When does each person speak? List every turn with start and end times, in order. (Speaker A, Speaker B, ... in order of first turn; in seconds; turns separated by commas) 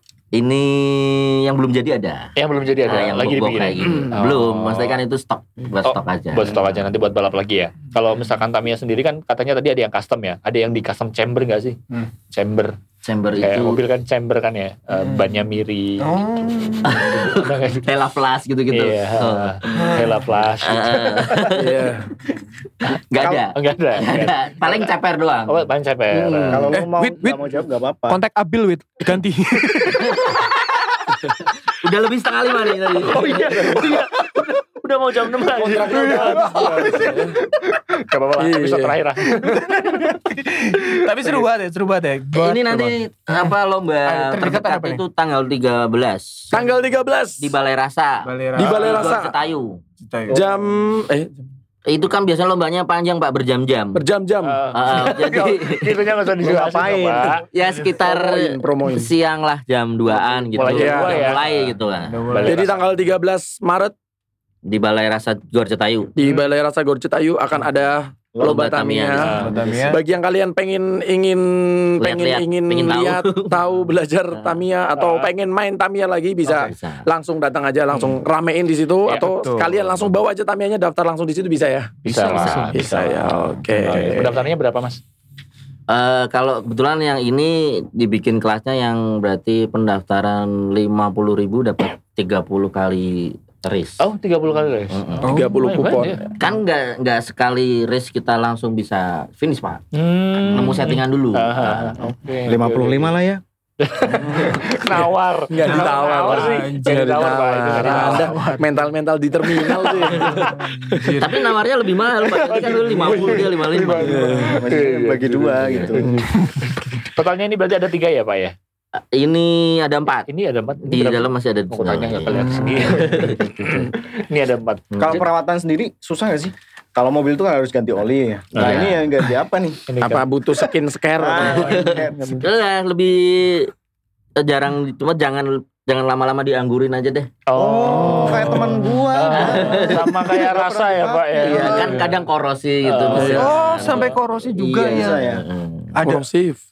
Speaker A: 0.3-2.3, Speaker B: 2.4-5.0, Speaker A: 2.8-6.9, Speaker B: 5.9-11.8, Speaker B: 12.3-12.8, Speaker A: 13.0-13.8, Speaker B: 13.4-16.1, Speaker C: 15.0-15.4, Speaker C: 16.0-17.4, Speaker A: 16.8-19.6, Speaker B: 17.4-17.9, Speaker B: 18.7-21.3, Speaker D: 19.7-20.1, Speaker C: 19.7-20.3, Speaker A: 20.6-22.1, Speaker E: 21.5-22.1, Speaker A: 22.8-26.7, Speaker D: 23.1-23.5, Speaker B: 23.6-24.9, Speaker B: 25.5-26.7, Speaker D: 26.5-28.2, Speaker C: 26.7-27.4, Speaker C: 28.1-30.4, Speaker A: 30.1-30.5, Speaker A: 31.8-34.0, Speaker B: 33.0-37.2, Speaker E: 35.5-37.4, Speaker C: 35.9-37.8, Speaker B: 38.1-39.7, Speaker E: 38.4-39.0, Speaker C: 39.3-43.5, Speaker A: 42.3-46.6, Speaker C: 44.0-45.0, Speaker E: 46.5-47.5, Speaker A: 47.4-49.8, Speaker C: 48.2-49.0, Speaker E: 48.5-49.4, Speaker C: 50.0-50.4, Speaker D: 50.3-50.8, Speaker E: 50.3-51.4, Speaker A: 51.9-54.0, Speaker E: 54.0-54.6, Speaker B: 54.4-57.4, Speaker A: 54.7-56.0, Speaker D: 56.4-57.5, Speaker A: 57.5-62.3, Speaker E: 57.8-59.1, Speaker B: 60.5-61.7, Speaker E: 60.6-61.3, Speaker C: 62.1-62.7, Speaker B: 62.3-62.8, Speaker E: 62.4-63.9, Speaker A: 64.7-66.1, Speaker E: 66.2-82.0, Speaker D: 68.3-68.7, Speaker A: 68.4-69.4, Speaker B: 69.2-69.5, Speaker C: 69.2-70.0, Speaker D: 69.4-69.8, Speaker A: 72.0-73.6, Speaker A: 74.3-74.6, Speaker B: 75.0-75.3, Speaker A: 76.4-77.1, Speaker C: 79.2-79.9, Speaker B: 82.0-83.0, Speaker A: 82.1-82.8, Speaker C: 82.2-84.3, Speaker E: 82.7-84.3, Speaker B: 83.8-85.0, Speaker A: 85.9-94.0, Speaker B: 94.0-96.2, Speaker A: 94.9-95.3, Speaker C: 95.2-95.7, Speaker E: 95.2-96.3, Speaker A: 96.4-99.8, Speaker B: 99.9-103.2, Speaker A: 100.4-102.0, Speaker D: 102.0-103.4, Speaker B: 103.8-108.4, Speaker D: 104.2-104.7, Speaker E: 104.5-105.0, Speaker E: 105.5-111.2, Speaker C: 105.7-107.1, Speaker C: 107.8-108.8, Speaker C: 110.1-111.4, Speaker A: 111.2-114.5, Speaker B: 112.5-116.1, Speaker E: 112.5-114.7, Speaker D: 114.5-116.2, Speaker A: 115.6-116.0, Speaker E: 116.0-116.3, Speaker C: 116.5-116.7, Speaker B: 117.0-118.5, Speaker A: 119.0-120.3, Speaker B: 120.3-125.3, Speaker A: 120.8-123.5, Speaker C: 122.3-123.3, Speaker A: 124.9-125.3, Speaker D: 125.0-129.9, Speaker A: 128.6-129.0, Speaker B: 128.6-129.0, Speaker B: 129.9-130.3, Speaker E: 130.0-132.5, Speaker D: 131.2-132.4, Speaker A: 131.5-133.7, Speaker A: 134.4-137.3, Speaker B: 137.5-142.2, Speaker D: 137.6-142.1, Speaker C: 137.8-139.1, Speaker A: 139.2-140.1, Speaker A: 141.4-146.0, Speaker B: 142.8-144.2, Speaker E: 143.1-143.5, Speaker C: 143.3-145.3, Speaker D: 144.8-145.4, Speaker C: 145.9-146.3, Speaker E: 146.0-146.6